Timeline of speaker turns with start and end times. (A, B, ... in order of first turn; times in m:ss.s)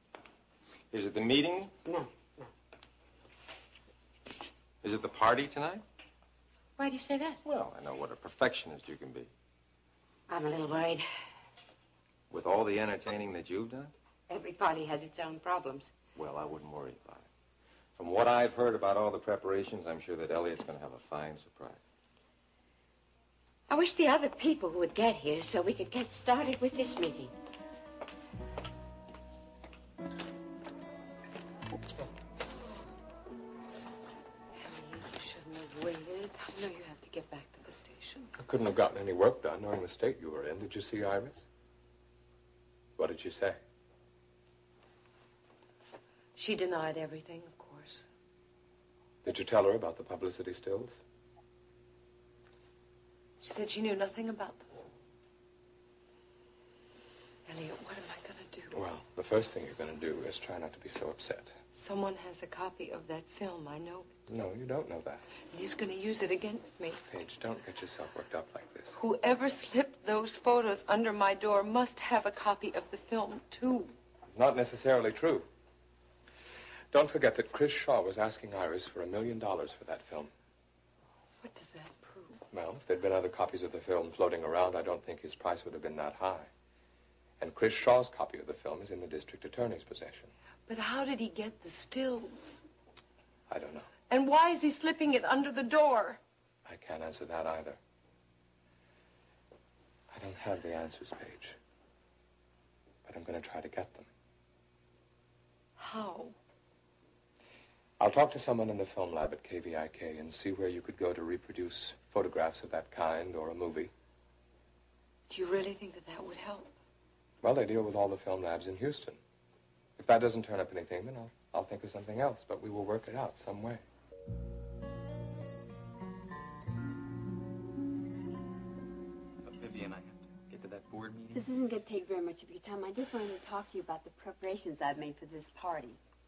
0:00.9-0:01.7 A
0:01.9-0:02.5 B
0:04.8-0:05.8 A
0:06.8-0:07.4 B
0:07.4-0:09.3 A
0:10.3-0:11.1 B
0:12.3-0:13.9 A
0:14.3-0:15.9 B
0:16.2-0:17.3 A
0:18.0-0:21.8 A
0:23.7-0:27.3 B
0:34.6-0:38.3 C
0:38.4-0:41.4 D
0:43.0-0:43.6 D
0:46.4-0:48.1 C
0:49.2-0:51.0 D
0:53.4-0:54.7 C
0:57.5-0:58.8 C
0:58.7-1:01.5 D
1:01.8-1:04.1 C
1:04.3-1:05.2 D
1:05.5-1:07.0 C
1:07.0-1:09.0 D
1:08.9-1:14.0 C
1:14.3-1:15.5 D
1:16.9-1:20.3 D
1:21.4-1:22.4 C
1:22.5-1:26.5 D
1:27.4-1:30.3 D
1:30.7-1:32.6 C
1:33.5-1:33.9 D
1:34.1-1:36.2 C
1:36.7-1:37.8 D
1:40.1-1:41.6 D
1:43.0-1:44.1 D
1:45.8-1:46.4 C
1:48.0-1:53.9 D
1:55.3-1:56.7 C
1:57.4-1:59.2 D
2:00.0-2:03.8 D
2:09.4-2:11.4 E
2:11.3-2:16.0 F